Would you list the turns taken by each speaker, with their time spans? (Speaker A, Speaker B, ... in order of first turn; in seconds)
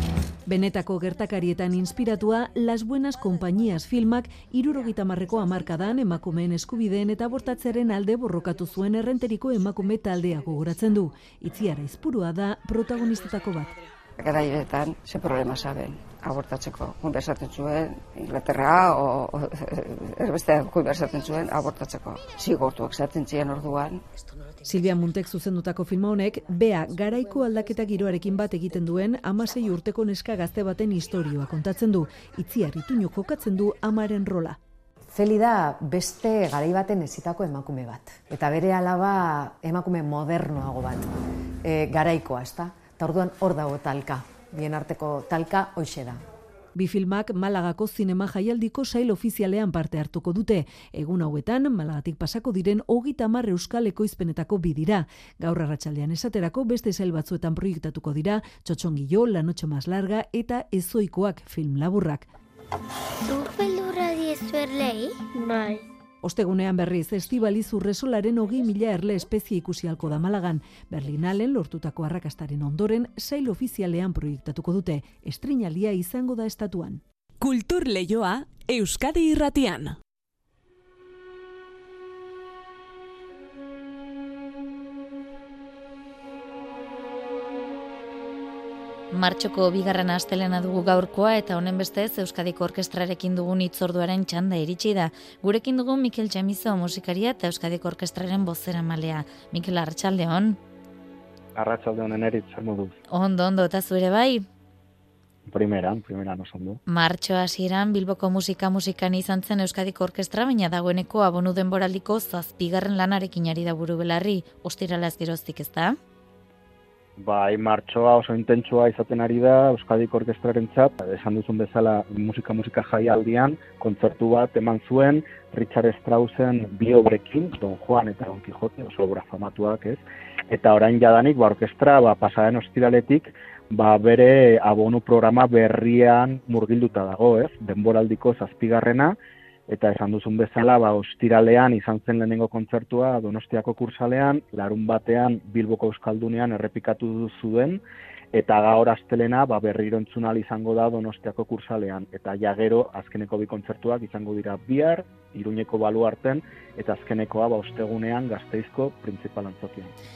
Speaker A: 0.5-13.7, 24.6-34.6, 46.8-62.3, 66.2-77.0
Speaker B: 14.2-24.0
Speaker C: 35.1-46.2
Speaker D: 63.3-65.8
Speaker E: 77.4-80.0
Speaker F: 89.1-100.6, 103.1-104.5, 106.9-116.0
Speaker G: 101.6-103.0, 105.5-106.8, 117.2-139.2, 139.7-147.8, 148.3-159.9